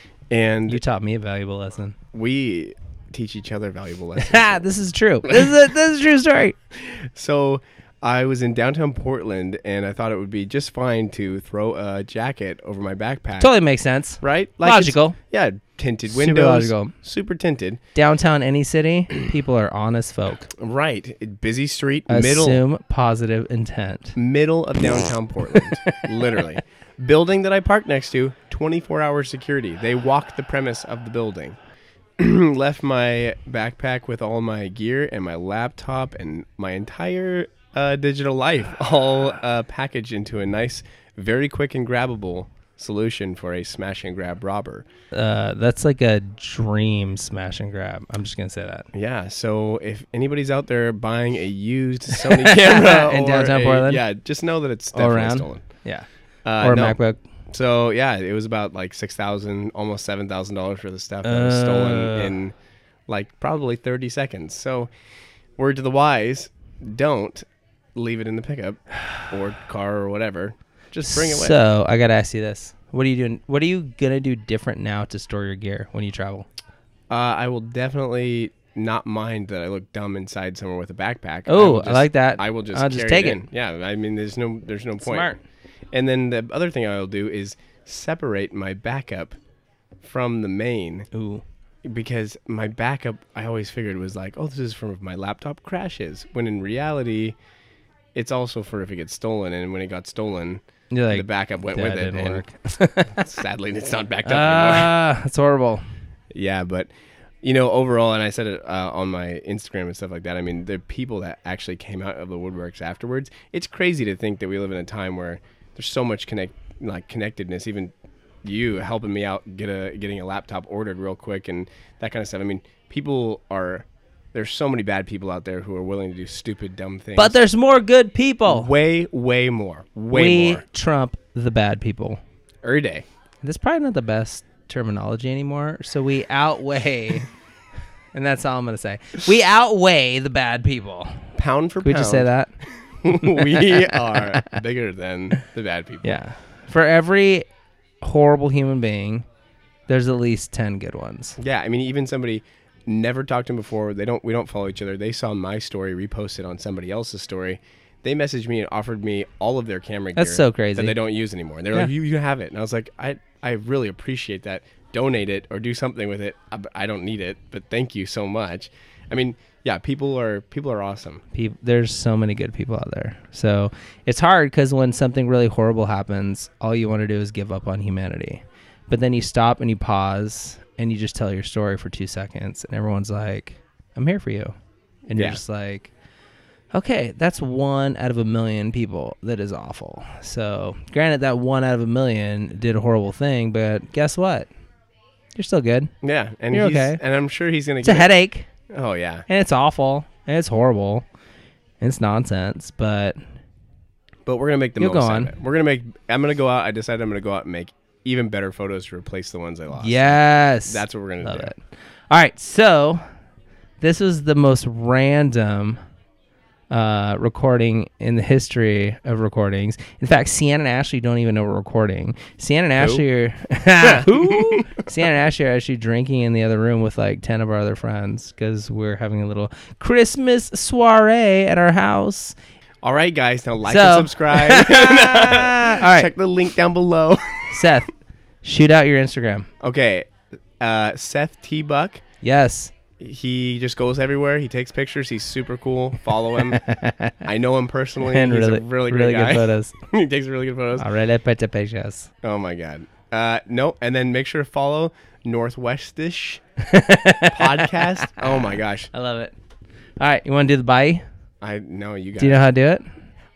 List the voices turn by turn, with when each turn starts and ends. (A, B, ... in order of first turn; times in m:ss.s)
0:00.3-0:00.8 A
0:00.7-0:02.0 B
0:02.1-0:04.6 A
0:04.2-0:06.6 B
0:06.8-0:13.5 A
0:13.4-0:15.2 B
0:14.2-0:17.8 A
0:16.1-0:17.0 B
0:18.0-0:20.5 B
0:20.6-0:22.6 A
0:22.1-0:24.2 B
0:24.2-0:31.6 A
0:32.2-0:44.9 A
0:45.1-0:48.9 B
0:48.9-0:55.7 A
0:52.2-0:54.0 B
0:54.9-0:57.2 B
0:56.4-0:57.0 A
0:57.5-1:02.6 A
1:01.2-1:02.4 B
1:03.1-1:04.9 A
1:05.6-1:11.6 A
1:11.0-1:16.5 B
1:17.1-1:25.3 A
1:21.5-1:23.4 B
1:25.0-1:25.4 B
1:25.9-1:29.4 A
1:30.0-1:31.1 A
1:31.1-1:31.4 B
1:31.8-1:37.4 A
1:38.2-1:42.4 A
1:40.9-1:43.3 B
1:43.2-1:44.9 A
1:44.2-1:45.8 B
1:46.3-1:57.9 A
1:58.4-2:07.4 A
2:07.2-2:08.7 B
2:08.5-2:10.6 A
2:10.1-2:12.2 B
2:12.6-2:13.1 A
2:13.4-2:17.3 B
2:18.1-2:21.3 B
2:21.4-2:22.3 A
2:21.8-2:22.5 B
2:23.0-2:26.2 A
2:23.1-2:24.5 B
2:26.0-2:27.5 B
2:28.0-2:29.3 B
2:29.9-2:31.4 B
2:31.4-2:51.2 A
2:40.2-2:41.0 B
2:51.3-3:04.6 B
3:05.1-3:05.9 B
3:05.2-3:05.4 A
3:06.7-3:14.5 B
3:15.4-3:15.9 B
3:16.0-3:18.1 A
3:16.5-3:17.0 B
3:17.8-3:18.5 B
3:18.7-3:19.3 A
3:19.3-3:21.0 B
3:21.8-3:23.2 B
3:24.3-3:31.5 A
3:24.8-3:25.3 B
3:29.8-3:33.0 B
3:33.8-3:35.8 B
3:36.7-3:52.4 B
3:43.8-3:44.8 A
3:52.8-3:57.7 A
3:53.6-3:56.1 B
3:57.5-3:57.9 B
3:58.4-3:59.5 B
3:59.6-4:02.0 A
4:02.2-4:02.7 B
4:03.0-4:06.6 A
4:06.4-4:07.2 B
4:07.2-4:10.9 A
4:08.0-4:09.7 B
4:10.8-4:12.1 B
4:12.2-4:16.4 A
4:16.6-4:19.3 B
4:17.3-4:18.9 A
4:20.0-4:21.0 B
4:21.4-4:22.5 A
4:22.2-4:22.9 B